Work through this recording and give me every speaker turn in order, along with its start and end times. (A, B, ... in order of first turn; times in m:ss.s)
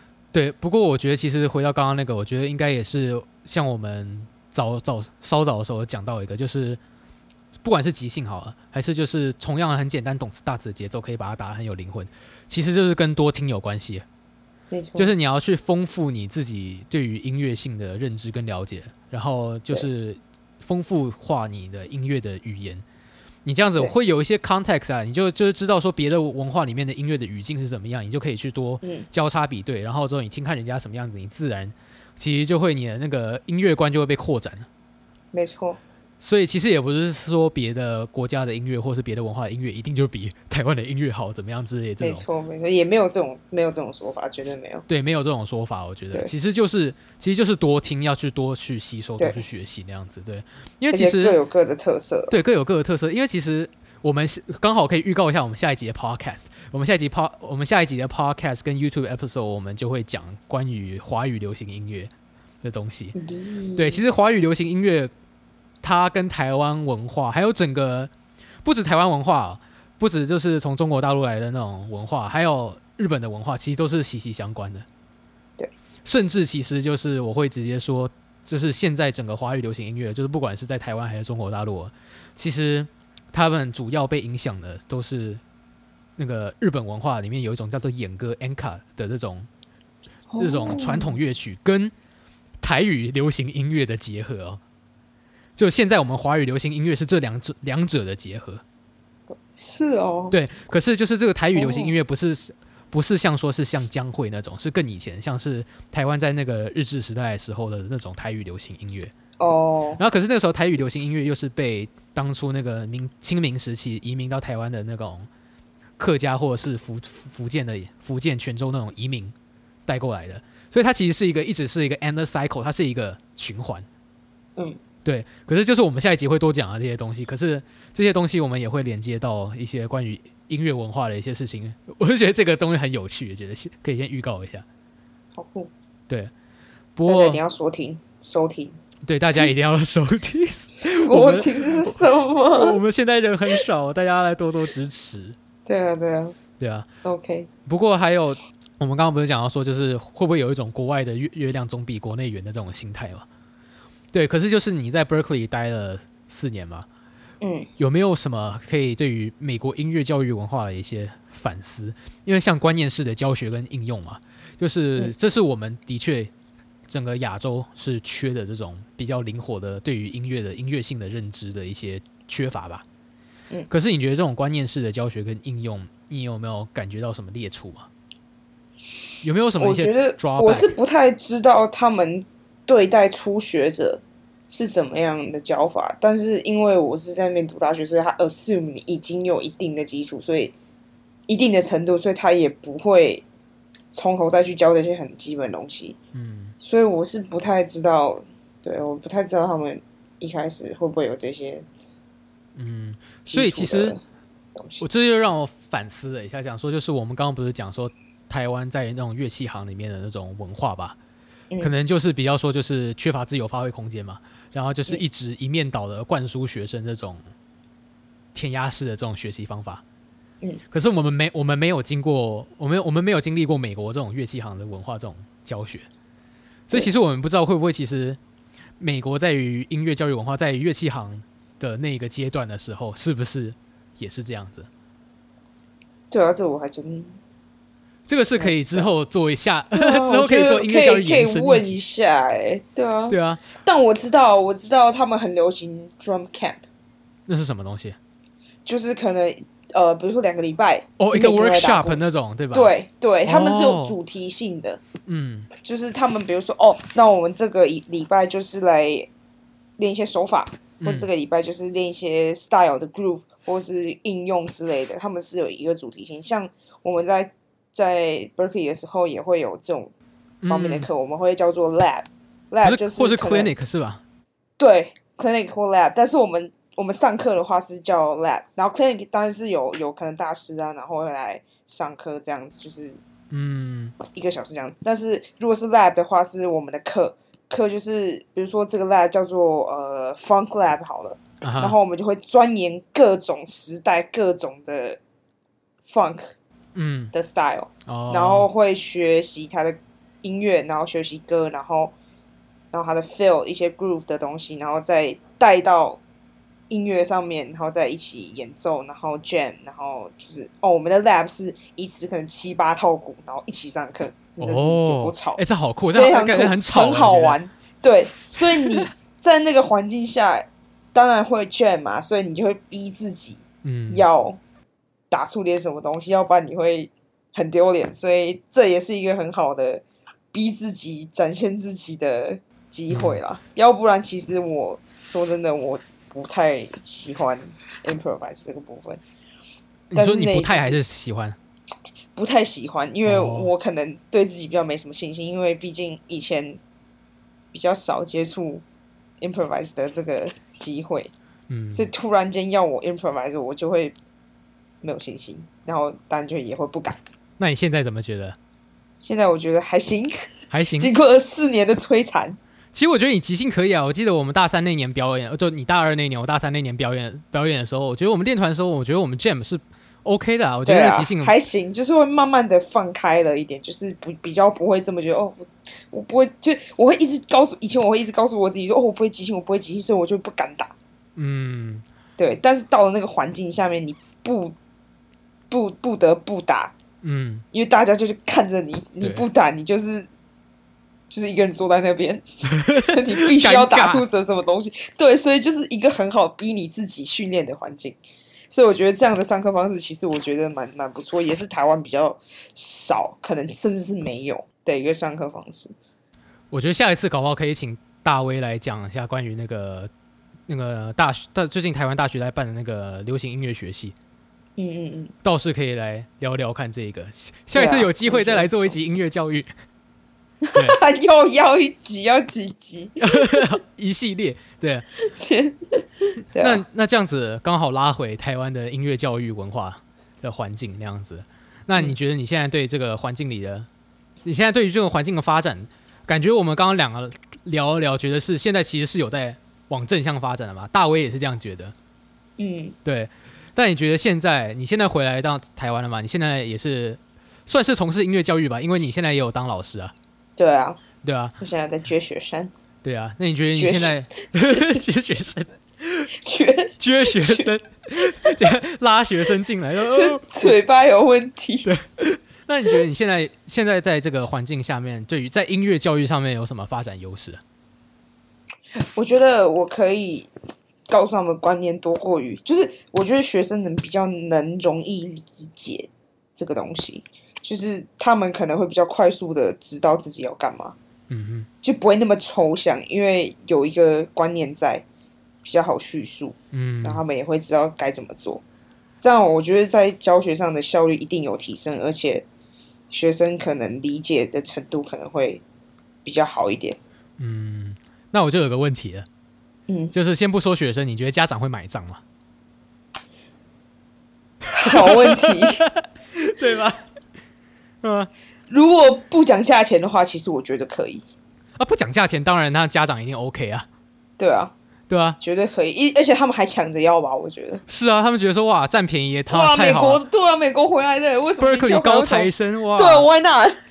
0:00.3-0:06.8 A
0:07.6-0:14.0 A
0:14.7-0:15.1 B
0:15.0-0:22.8 A
0:23.4-0:34.7 A
0:35.3-0:35.8 B
0:36.2-0:42.2 A
0:42.0-0:44.8 B
0:44.9-0:51.4 A
0:50.9-0:52.4 B
0:52.3-1:03.1 A
1:03.2-1:04.0 B
1:03.8-1:05.1 A
1:05.8-1:08.1 A
1:08.6-1:14.8 A
1:16.0-1:25.4 A
1:26.2-1:29.5 A
1:30.3-1:31.2 B
1:30.4-1:31.9 A
1:32.6-1:34.6 A
1:35.6-1:38.6 A
1:39.5-1:40.4 B
1:40.3-1:49.1 A
1:41.5-1:41.9 B
1:49.4-1:50.0 B
1:50.0-1:55.3 A
1:56.0-1:59.3 A
1:59.8-2:03.9 A
2:05.0-2:14.6 A
2:15.4-2:15.7 B
2:17.0-2:17.4 A
2:17.0-2:18.8 B
2:19.0-2:25.4 A
2:20.8-2:22.8 B
2:25.6-2:26.4 B
2:26.6-2:26.9 A
2:27.0-2:27.5 B
2:27.6-2:33.2 A
2:34.1-2:36.9 A
2:37.4-2:37.7 B
2:37.8-2:46.3 A
2:46.9-2:52.8 A
2:53.7-2:57.9 A
2:59.2-3:00.7 A
2:59.6-3:10.5 B
3:11.3-3:13.2 B
3:13.9-3:16.0 B
3:16.1-3:16.5 A
3:16.6-3:21.6 B
3:22.5-3:23.9 A
3:23.2-3:24.0 B
3:24.5-3:24.8 B
3:24.8-3:31.0 A
3:31.6-3:37.2 A
3:38.3-3:39.8 A
3:40.7-3:45.9 A
3:46.7-3:48.2 A
3:48.8-3:54.7 A
3:56.1-3:57.2 B
3:58.1-4:01.8 A
3:58.4-3:58.9 B
3:59.7-4:06.6 B
4:03.1-4:03.4 A
4:07.3-4:08.0 A
4:08.6-4:12.0 B
4:11.0-4:12.7 A
4:12.5-4:14.8 B
4:13.2-4:14.0 A
4:15.0-4:15.5 A
4:15.6-4:19.1 B
4:19.8-4:29.9 B
4:20.8-4:21.1 A
4:30.4-4:30.9 A
4:30.5-4:33.5 B
4:32.6-4:34.0 A
4:34.6-4:43.0 B
4:43.3-4:43.9 A
4:44.0-4:55.0 B
4:51.4-4:51.8 A
4:55.8-4:56.3 B
4:56.7-4:57.1 A
4:57.1-5:01.9 B
4:57.8-4:58.5 A
5:02.7-5:06.0 B
5:06.7-5:24.4 B
5:14.4-5:17.4 A
5:18.4-5:18.9 A
5:23.6-5:24.0 A
5:25.1-5:39.0 B
5:32.9-5:33.2 A
5:39.9-5:41.4 A
5:39.9-5:40.8 B
5:42.1-5:46.6 B
5:43.0-5:43.5 A
5:47.5-5:48.6 B
5:49.2-5:51.1 B
5:51.5-5:51.9 A
5:51.7-5:53.9 B
5:54.8-5:57.0 B
5:57.4-5:58.4 A
5:59.0-6:00.2 B
6:00.5-6:00.9 A
6:00.8-6:02.4 B
6:02.7-6:11.3 A
6:10.6-6:20.7 B
6:21.2-6:21.8 A
6:22.2-6:24.5 B
6:25.5-6:26.7 B
6:27.0-6:27.4 A
6:27.5-6:30.1 B
6:31.1-6:38.0 B
6:32.5-6:34.0 A
6:38.5-6:45.7 B
6:46.5-6:49.9 A
6:50.5-6:53.9 A
6:54.6-6:55.1 B
6:55.2-6:59.5 A
6:57.5-6:58.8 B
7:00.4-7:03.5 B
7:03.0-7:04.8 A
7:05.1-7:06.6 B
7:06.4-7:13.7 A
7:14.2-7:21.7 A
7:22.4-7:22.8 B
7:22.8-7:29.9 A
7:30.4-7:30.8 B
7:31.0-7:31.4 A
7:31.4-7:32.5 B
7:32.8-7:36.1 A
7:33.6-7:34.8 B
7:36.1-7:38.5 B
7:36.8-7:40.5 A
7:39.9-7:41.7 B
7:41.6-7:47.4 A
7:48.9-7:50.3 B
7:50.9-8:00.8 B
8:01.1-8:01.5 A
8:01.6-8:04.8 B
8:05.4-8:08.4 B
8:06.5-8:07.0 A
8:09.0-8:12.2 B
8:12.9-8:15.4 B
8:16.0-8:16.8 B
8:17.2-8:19.1 A
8:19.7-8:19.9 B
8:19.9-8:22.0 A
8:24.5-8:25.7 B
8:24.6-8:26.8 A
8:27.8-8:28.1 A
8:28.5-8:31.0 B
8:31.6-8:33.7 A
8:34.2-8:34.5 B
8:34.9-8:35.2 A
8:35.2-8:37.6 B
8:37.7-8:40.0 A
8:39.3-8:43.6 B
8:41.4-8:43.1 A